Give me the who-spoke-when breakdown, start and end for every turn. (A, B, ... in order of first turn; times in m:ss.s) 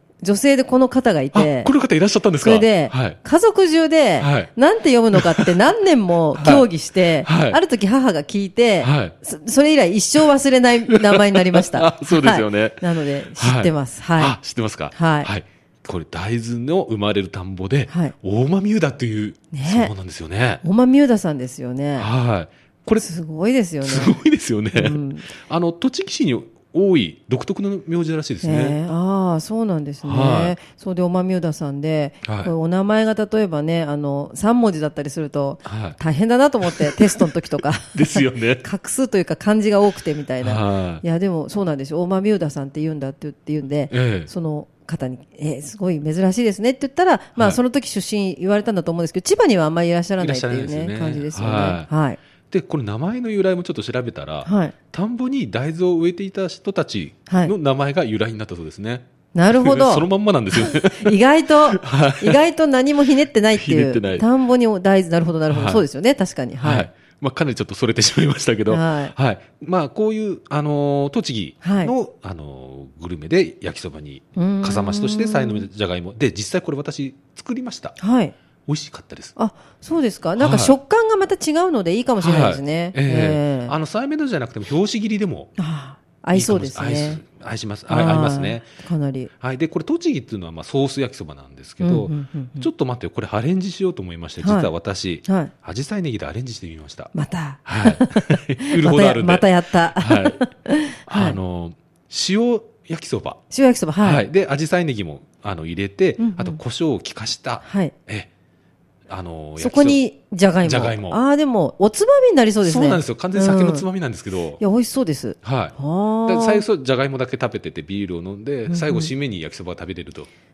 0:00.2-0:01.7 A
0:01.3-0:03.2 B
0:02.4-0:14.4 A
0:04.2-0:04.5 B
0:05.1-0:05.6 B
0:06.4-0:06.7 B
0:07.2-0:07.6 B
0:08.8-0:09.1 B
0:10.9-0:20.6 B
0:14.9-0:15.3 A
0:17.9-0:18.2 A
0:19.5-0:19.9 A
0:20.6-0:22.1 A
0:22.0-0:23.0 B
0:23.0-0:24.2 A
0:23.8-0:28.8 B
0:24.7-0:25.3 A
0:28.4-0:52.2 A
0:30.0-0:30.6 B
0:32.2-0:32.5 B
0:35.6-0:36.0 B
0:36.6-0:37.3 B
0:37.8-0:38.6 B
0:40.4-0:41.0 B
0:43.9-0:44.3 B
0:50.2-0:51.9 B
0:52.5-1:01.2 B
0:54.4-0:54.8 A
0:57.3-0:57.5 A
0:59.3-1:06.9 A
1:01.7-1:02.4 B
1:03.5-1:04.3 B
1:05.5-1:05.8 B
1:06.6-1:18.0 B
1:08.7-1:09.1 A
1:11.6-1:11.9 A
1:14.4-1:15.7 A
1:18.0-1:18.4 A
1:18.7-1:19.3 B
1:19.4-1:23.8 A
1:20.4-1:20.8 B
1:22.2-1:25.5 B
1:25.6-1:27.2 A
1:26.3-1:28.7 B
1:27.9-1:29.3 A
1:29.4-1:37.1 B
1:31.8-1:32.7 A
1:34.4-1:34.7 A
1:35.2-1:35.5 A
1:37.1-1:41.4 A
1:37.7-1:40.5 B
1:41.1-1:43.4 B
1:43.5-1:44.2 A
1:44.0-1:48.3 B
1:46.2-1:46.6 A
1:47.6-1:47.9 A
1:49.1-1:50.0 B
1:49.6-1:53.9 A
1:50.6-1:51.2 B
1:52.6-1:54.6 B
1:54.6-1:56.6 A
1:55.4-1:55.8 B
1:56.3-2:00.3 B
1:58.7-1:59.1 A